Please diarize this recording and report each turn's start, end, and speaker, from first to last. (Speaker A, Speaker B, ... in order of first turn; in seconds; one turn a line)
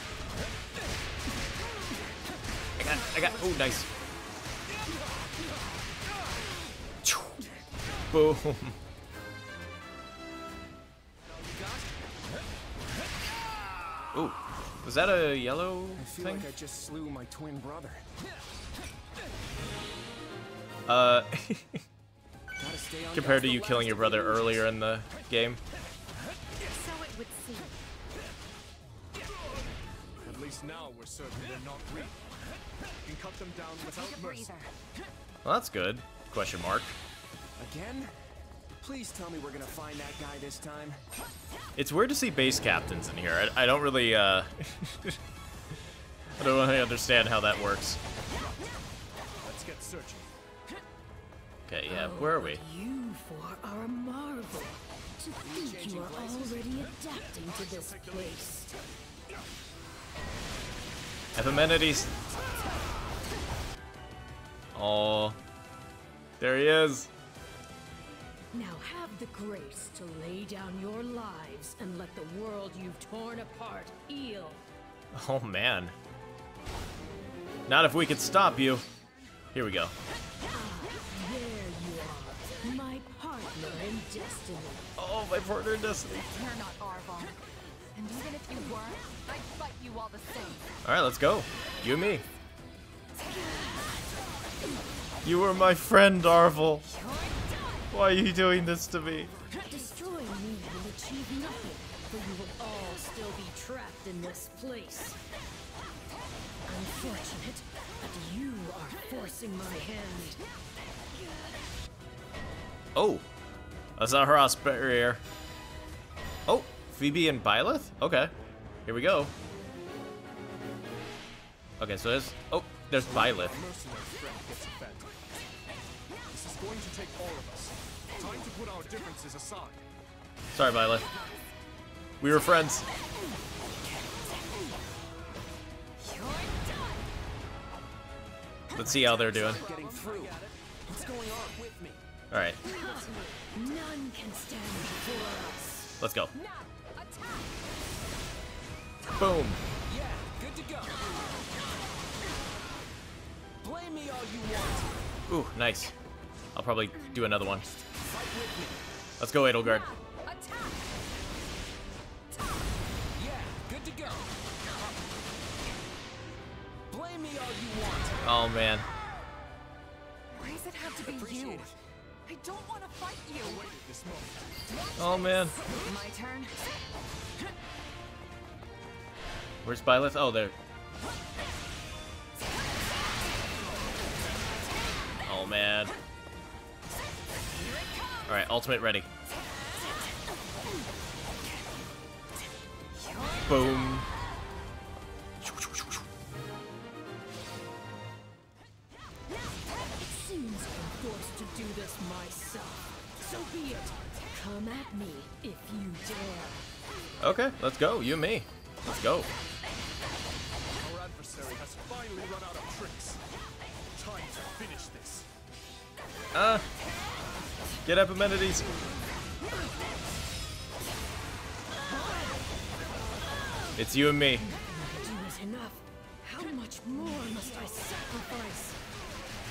Speaker A: 2.8-3.9
Speaker A: 7.0-7.4
Speaker A: 8.1-8.8
Speaker B: 11.4-11.8
Speaker A: 14.1-16.5
Speaker B: 16.0-18.1
Speaker A: 20.9-21.8
Speaker B: 22.6-24.7
Speaker A: 23.1-25.6
Speaker C: 26.6-27.8
Speaker D: 30.2-32.2
Speaker D: 33.0-34.6
Speaker C: 33.8-34.7
Speaker A: 35.4-37.0
Speaker B: 37.6-38.1
Speaker B: 38.8-41.0
Speaker A: 41.8-45.2
Speaker A: 46.4-48.0
Speaker D: 49.4-50.3
Speaker A: 51.7-52.6
Speaker E: 51.9-58.7
Speaker B: 55.4-56.9
Speaker D: 56.9-58.6
Speaker A: 61.3-62.1
Speaker A: 64.7-65.4
Speaker A: 66.4-67.1
Speaker E: 68.5-74.6
Speaker A: 75.1-75.9
Speaker A: 77.7-78.8
Speaker A: 79.5-79.9
Speaker E: 80.4-84.9
Speaker A: 85.0-86.2
Speaker C: 86.2-90.7
Speaker A: 90.8-92.2
Speaker C: 93.2-93.9
Speaker A: 95.2-96.9
Speaker C: 97.0-97.8
Speaker A: 97.9-99.3
Speaker C: 99.5-99.9
Speaker E: 99.6-105.2
Speaker E: 106.6-110.4
Speaker A: 112.9-113.3
Speaker A: 114.0-115.2
Speaker A: 116.5-118.3
Speaker A: 118.8-119.3
Speaker A: 121.8-123.5
Speaker D: 122.9-125.2
Speaker D: 126.3-129.8
Speaker A: 130.5-131.1
Speaker A: 132.2-132.9
Speaker C: 136.2-136.4
Speaker E: 136.3-136.6
Speaker A: 138.7-139.6
Speaker C: 138.9-140.2
Speaker B: 139.4-142.0
Speaker A: 142.3-142.6
Speaker E: 142.6-146.0
Speaker A: 146.0-146.3
Speaker C: 146.3-147.6
Speaker A: 149.2-149.6
Speaker B: 149.8-151.3
Speaker B: 153.6-155.0
Speaker A: 155.3-155.9
Speaker A: 156.5-157.6
Speaker B: 157.9-158.8
Speaker A: 159.2-159.9
Speaker C: 159.6-160.9
Speaker B: 163.2-164.3
Speaker B: 166.9-168.2
Speaker A: 168.2-168.9
Speaker C: 170.3-171.7
Speaker B: 170.9-171.8
Speaker C: 172.2-173.7
Speaker D: 173.4-174.8
Speaker C: 174.7-176.8
Speaker A: 175.0-175.6
Speaker A: 179.6-180.5
Speaker A: 185.2-185.9
Speaker A: 188.3-189.1
Speaker E: 193.2-193.5
Speaker A: 193.4-194.1
Speaker A: 195.4-195.9
Speaker E: 199.9-206.6
Speaker A: 207.2-209.3
Speaker D: 210.7-213.2
Speaker D: 213.9-215.3
Speaker A: 216.3-216.7
Speaker A: 217.8-218.8
Speaker E: 221.9-222.4
Speaker A: 223.8-224.4
Speaker E: 224.4-228.8